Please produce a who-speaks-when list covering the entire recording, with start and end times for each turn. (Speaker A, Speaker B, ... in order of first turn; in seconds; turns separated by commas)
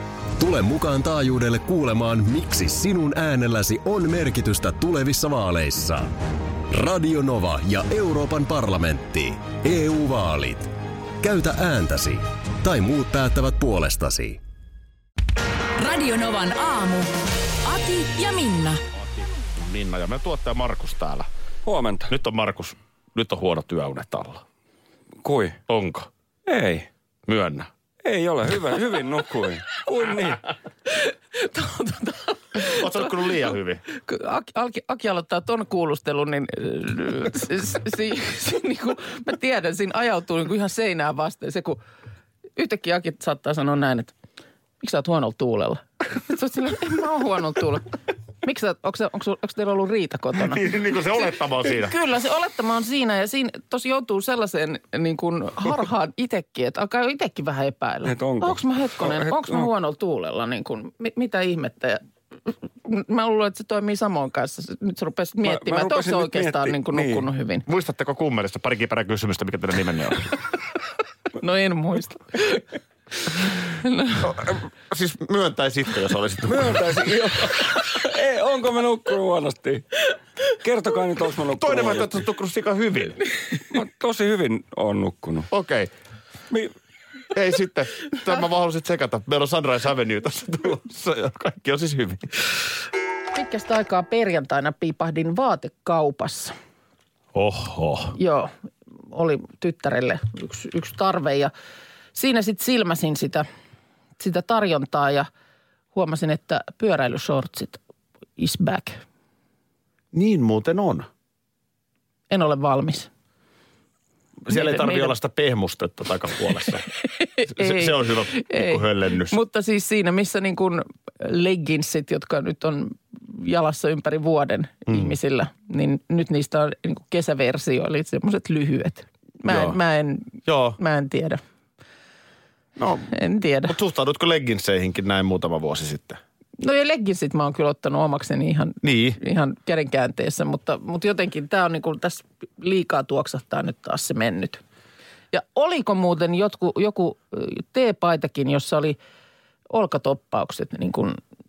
Speaker A: 0.4-6.1, Speaker A: 6.7-14.4, Speaker B: 15.8-17.1, Speaker B: 17.6-18.8, Speaker C: 19.0-21.3, Speaker D: 21.7-22.1, Speaker C: 22.1-24.4, Speaker D: 25.2-25.6, Speaker C: 25.7-26.1, Speaker D: 26.5-26.9, Speaker C: 27.3-27.7, Speaker D: 28.0-30.4, Speaker E: 30.9-33.0, Speaker C: 32.6-33.8, Speaker E: 34.0-41.8, Speaker E: 42.6-44.1, Speaker E: 44.8-47.9, Speaker E: 48.4-50.7, Speaker C: 50.4-52.0, Speaker E: 51.6-62.0, Speaker D: 58.0-59.7, Speaker E: 62.9-67.7, Speaker D: 65.4-67.3, Speaker C: 67.7-70.3, Speaker E: 71.4-72.7, Speaker E: 73.8-74.3, Speaker C: 74.2-76.9, Speaker D: 76.5-82.2, Speaker C: 81.6-83.2, Speaker D: 83.7-85.5, Speaker C: 85.5-85.9, Speaker C: 87.3-92.4, Speaker E: 93.3-96.5, Speaker C: 97.3-98.2, Speaker E: 98.2-98.5, Speaker E: 99.1-101.5, Speaker E: 102.2-103.5, Speaker E: 104.2-105.3, Speaker E: 105.9-107.8, Speaker E: 108.4-109.0, Speaker C: 110.1-111.1, Speaker E: 112.3-113.1, Speaker C: 114.5-116.9, Speaker E: 114.5-115.1, Speaker E: 117.2-131.4, Speaker C: 117.5-119.4, Speaker C: 124.9-125.1, Speaker C: 129.4-129.8, Speaker C: 130.5-130.8, Speaker C: 132.8-133.1, Speaker E: 133.1-133.7, Speaker C: 133.7-136.2, Speaker E: 136.6-144.6, Speaker C: 138.8-139.2, Speaker E: 145.3-149.0, Speaker E: 149.7-151.2